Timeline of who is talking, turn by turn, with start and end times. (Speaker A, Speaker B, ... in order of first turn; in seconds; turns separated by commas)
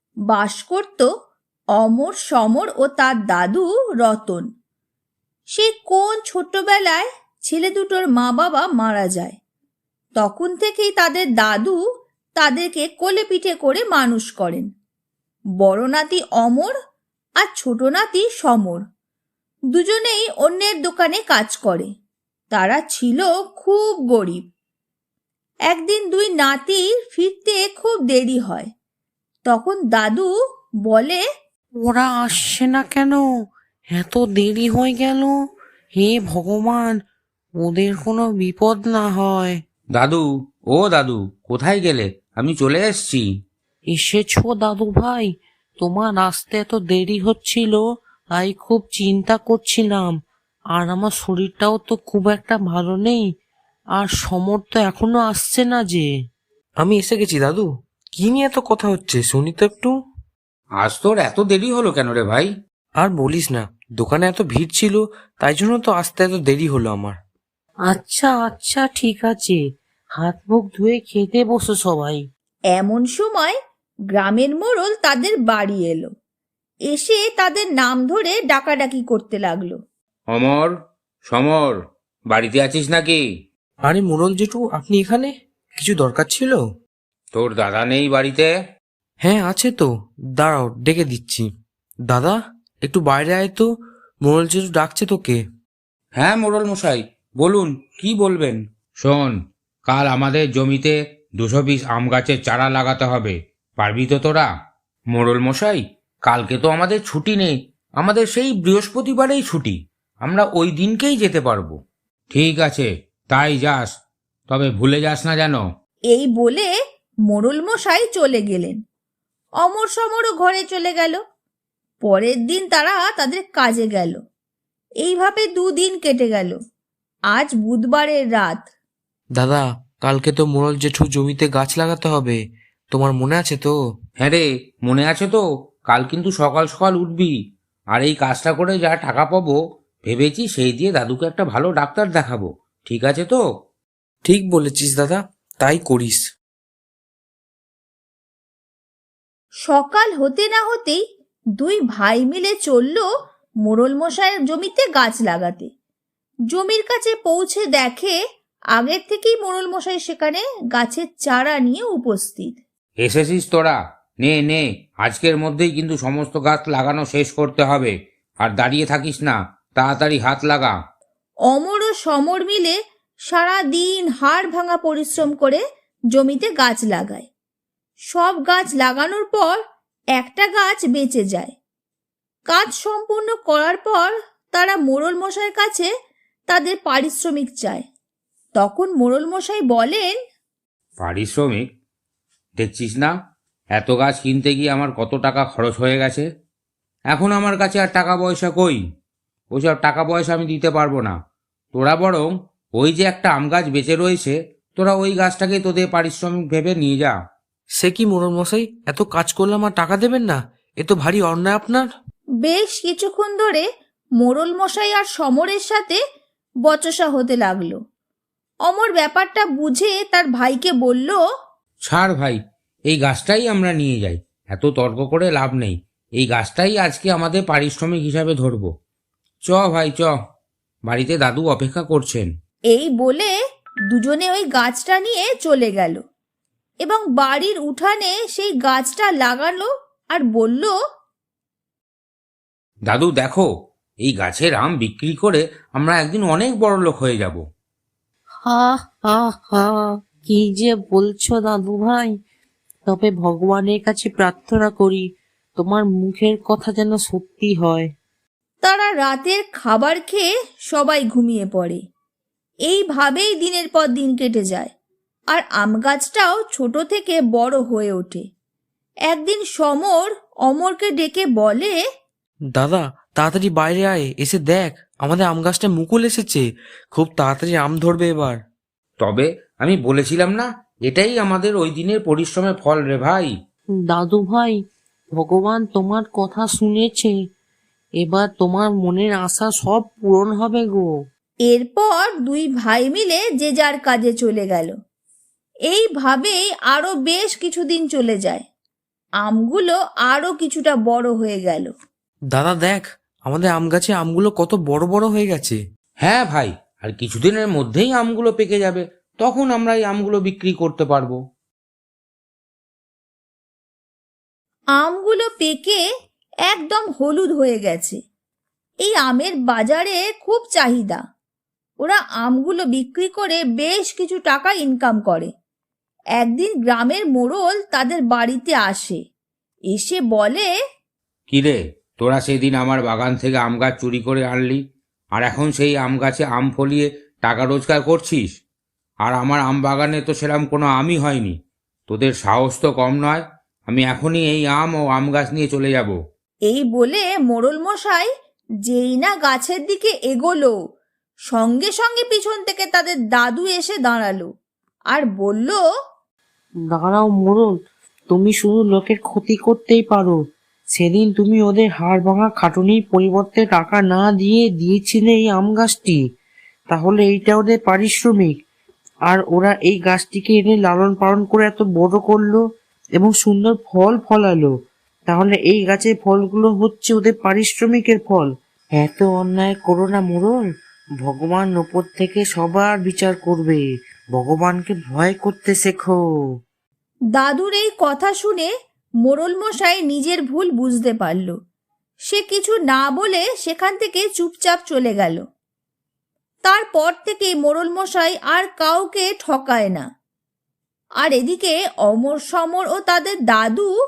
Speaker A: 0.3-1.1, Speaker A: 1.8-4.4, Speaker A: 5.5-9.4, Speaker A: 10.2-11.8, Speaker A: 12.4-14.7, Speaker A: 15.6-16.7, Speaker A: 17.4-18.8, Speaker A: 19.7-21.9, Speaker A: 22.5-24.4, Speaker A: 25.7-28.7, Speaker A: 29.4-30.3, Speaker A: 30.9-31.2, Speaker B: 31.8-33.2, Speaker B: 33.9-35.3, Speaker B: 36.0-37.0, Speaker B: 37.6-39.6, Speaker C: 39.9-43.3, Speaker B: 43.9-47.8, Speaker B: 48.3-50.1, Speaker B: 50.7-53.3, Speaker B: 54.0-56.1, Speaker D: 56.8-59.9, Speaker C: 60.8-62.5, Speaker D: 63.0-67.2, Speaker B: 67.9-69.6, Speaker B: 70.2-72.2, Speaker A: 72.7-73.5, Speaker A: 74.1-76.1, Speaker A: 76.9-79.8, Speaker C: 80.3-80.7, Speaker C: 81.2-81.8, Speaker C: 82.3-83.2, Speaker D: 83.8-86.6, Speaker C: 87.3-88.5, Speaker D: 89.2-91.5, Speaker D: 92.1-93.7, Speaker D: 94.2-95.4, Speaker C: 96.1-99.3, Speaker C: 99.9-104.5, Speaker C: 105.1-111.8, Speaker C: 112.3-113.9, Speaker C: 114.5-115.6, Speaker A: 116.1-116.7, Speaker A: 117.3-118.8, Speaker A: 119.6-121.2, Speaker A: 122.0-124.2, Speaker A: 125.0-126.5, Speaker A: 127.3-128.7, Speaker D: 129.3-132.4, Speaker D: 132.9-133.7, Speaker C: 134.2-137.3, Speaker C: 137.9-143.4, Speaker D: 144.2-146.2, Speaker A: 149.7-151.0, Speaker A: 151.6-153.0, Speaker A: 153.6-155.7, Speaker A: 156.5-158.2, Speaker A: 158.8-162.6, Speaker C: 163.0-170.7, Speaker A: 171.5-172.7, Speaker A: 173.3-175.6, Speaker A: 176.1-177.3, Speaker A: 178.1-179.6, Speaker A: 180.2-181.5, Speaker A: 182.5-185.9, Speaker A: 186.5-187.8, Speaker A: 188.6-190.1, Speaker C: 191.0-191.6, Speaker C: 192.6-193.1, Speaker C: 193.7-196.2, Speaker C: 197.1-198.8, Speaker C: 199.5-201.1, Speaker C: 201.7-207.1, Speaker D: 207.8-211.9, Speaker A: 212.4-213.6, Speaker A: 214.2-216.0, Speaker A: 216.7-217.8, Speaker A: 218.7-221.2, Speaker C: 221.8-228.7, Speaker C: 229.4-230.1, Speaker C: 230.8-232.3, Speaker A: 232.7-233.3, Speaker A: 233.9-236.0, Speaker A: 236.8-240.7, Speaker C: 242.8-243.5, Speaker C: 244.0-247.4, Speaker B: 248.4-252.1, Speaker B: 252.9-255.0, Speaker B: 255.6-257.9, Speaker A: 258.6-261.8, Speaker A: 262.7-264.7, Speaker A: 265.3-268.2, Speaker A: 269.1-271.8, Speaker D: 272.5-278.4, Speaker C: 279.0-283.3, Speaker B: 283.8-284.6, Speaker B: 285.1-287.1, Speaker B: 288.0-290.9, Speaker A: 291.5-294.7, Speaker A: 295.7-298.4, Speaker A: 299.2-301.7, Speaker D: 302.3-305.6, Speaker C: 306.0-311.2, Speaker A: 314.8-315.8, Speaker A: 316.5-318.0, Speaker A: 318.8-321.0, Speaker A: 321.8-325.3, Speaker A: 326.2-329.0, Speaker A: 329.7-330.5, Speaker C: 331.3-334.6, Speaker C: 335.1-338.3, Speaker C: 339.0-341.4, Speaker C: 341.9-346.0, Speaker A: 346.5-348.1, Speaker A: 348.6-350.6, Speaker A: 351.3-354.3, Speaker A: 354.9-355.6, Speaker B: 356.7-357.5, Speaker B: 358.1-360.2, Speaker B: 360.8-366.0, Speaker B: 366.7-368.3, Speaker B: 369.1-372.4, Speaker B: 373.0-374.5, Speaker B: 375.1-380.4, Speaker B: 381.0-383.6, Speaker B: 384.1-386.0, Speaker A: 387.1-388.5, Speaker A: 389.0-391.3, Speaker A: 392.1-395.2, Speaker A: 396.4-399.8, Speaker A: 401.0-403.7